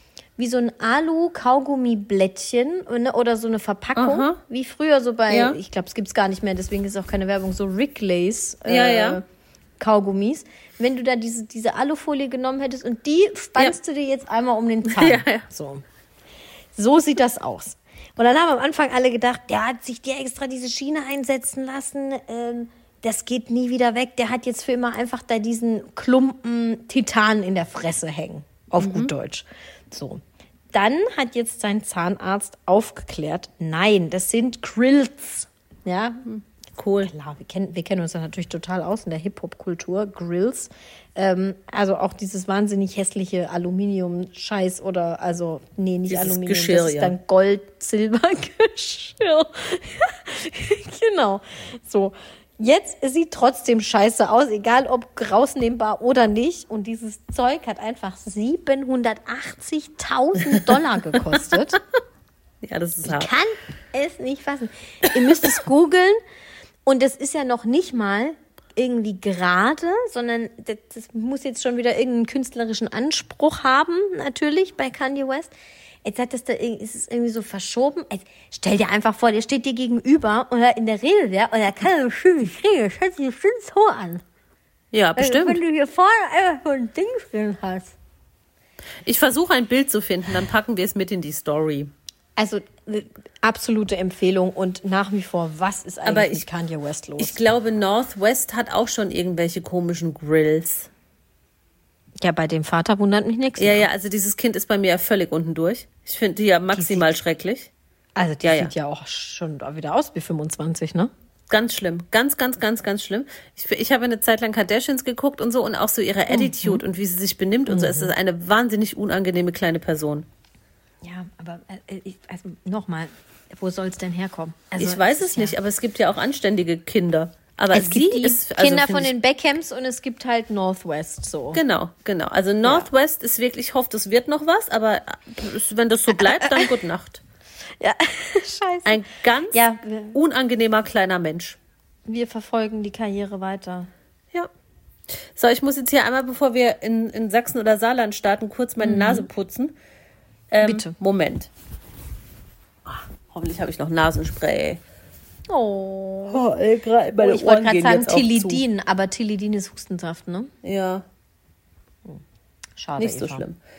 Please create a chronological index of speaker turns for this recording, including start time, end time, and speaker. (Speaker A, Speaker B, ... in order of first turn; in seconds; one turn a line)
Speaker A: 0.4-9.2
Speaker B: 4.0-4.4
Speaker B: 5.3-5.6
Speaker B: 8.7-9.2
Speaker A: 9.8-15.8
Speaker B: 14.9-15.4
Speaker A: 16.8-36.2
Speaker B: 28.8-29.1
Speaker B: 36.2-37.1
Speaker A: 37.0-61.8
Speaker B: 46.1-47.1
Speaker B: 60.4-61.2
Speaker B: 62.6-63.3
Speaker A: 63.0-66.2
Speaker B: 65.1-65.5
Speaker A: 66.8-75.5
Speaker A: 76.0-84.2
Speaker B: 84.9-85.6
Speaker A: 85.2-87.9
Speaker B: 89.0-91.9
Speaker A: 92.4-97.4
Speaker B: 96.0-96.5
Speaker B: 97.2-100.9
Speaker A: 102.2-103.9
Speaker B: 103.6-107.7
Speaker A: 106.7-107.1
Speaker A: 108.2-111.1
Speaker B: 108.4-108.7
Speaker B: 111.5-120.2
Speaker A: 116.3-116.8
Speaker A: 117.7-118.1
Speaker A: 121.0-125.5
Speaker B: 124.8-129.1
Speaker A: 127.7-131.6
Speaker B: 131.5-137.2
Speaker A: 136.1-136.7
Speaker A: 137.8-140.2
Speaker B: 138.8-141.6
Speaker A: 142.1-143.9
Speaker B: 145.2-149.8
Speaker A: 148.8-149.3
Speaker B: 150.5-151.5
Speaker A: 150.6-150.9
Speaker B: 152.8-154.8
Speaker A: 155.5-156.4
Speaker B: 156.3-158.6
Speaker A: 157.2-160.5
Speaker B: 160.6-161.1
Speaker A: 162.8-163.4
Speaker B: 163.0-163.6